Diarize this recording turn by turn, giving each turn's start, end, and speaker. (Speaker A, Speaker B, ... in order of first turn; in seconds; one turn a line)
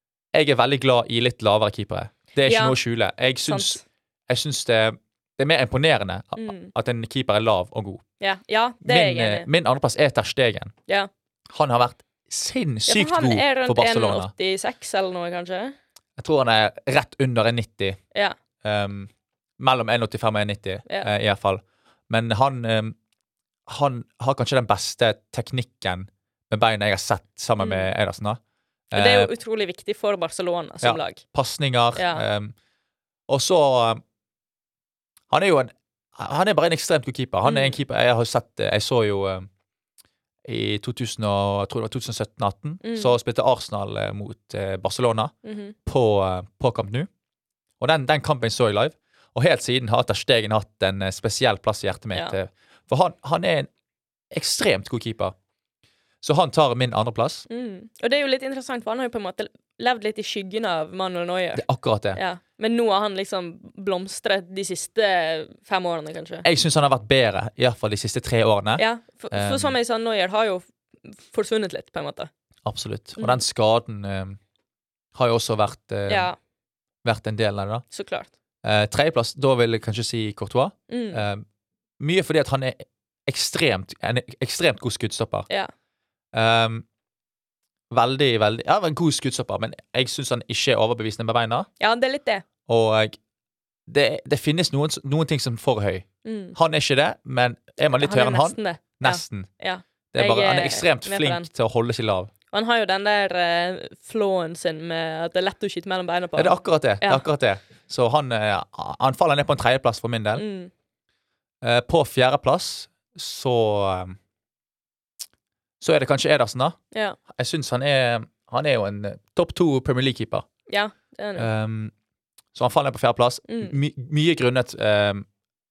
Speaker A: 0.3-8.0
Speaker B: 2.4-2.8
Speaker B: 3.5-3.8
Speaker B: 6.4-6.7
Speaker B: 8.2-9.5
Speaker A: 8.8-10.7
Speaker A: 11.5-14.3
Speaker B: 12.9-15.8
Speaker A: 16.2-18.0
Speaker A: 18.6-23.0
Speaker B: 20.9-21.1
Speaker A: 23.7-28.4
Speaker B: 27.6-27.9
Speaker A: 28.9-29.3
Speaker B: 28.9-31.2
Speaker A: 30.8-32.5
Speaker B: 31.9-32.3
Speaker A: 33.3-34.0
Speaker A: 35.3-39.5
Speaker B: 37.4-37.8
Speaker A: 40.5-47.1
Speaker B: 42.8-43.2
Speaker B: 45.4-45.8
Speaker A: 47.8-53.7
Speaker A: 54.3-55.4
Speaker A: 56.2-57.5
Speaker B: 57.5-66.5
Speaker A: 61.5-62.2
Speaker A: 66.4-69.7
Speaker B: 68.8-72.3
Speaker A: 72.7-74.4
Speaker B: 73.2-73.4
Speaker A: 75.2-76.3
Speaker B: 76.1-76.4
Speaker A: 77.0-77.9
Speaker B: 77.9-78.3
Speaker A: 78.6-81.5
Speaker B: 80.9-81.2
Speaker A: 82.0-85.5
Speaker A: 86.3-86.8
Speaker A: 87.9-91.7
Speaker B: 91.8-92.5
Speaker A: 92.7-93.2
Speaker A: 93.9-99.5
Speaker B: 96.2-96.6
Speaker B: 97.8-101.5
Speaker A: 100.1-102.3
Speaker B: 102.5-107.2
Speaker A: 106.4-110.4
Speaker B: 110.3-110.7
Speaker A: 111.6-114.2
Speaker A: 115.8-116.8
Speaker B: 116.9-117.2
Speaker A: 117.3-120.5
Speaker B: 120.7-121.5
Speaker A: 121.4-121.9
Speaker A: 122.5-125.3
Speaker B: 123.5-123.8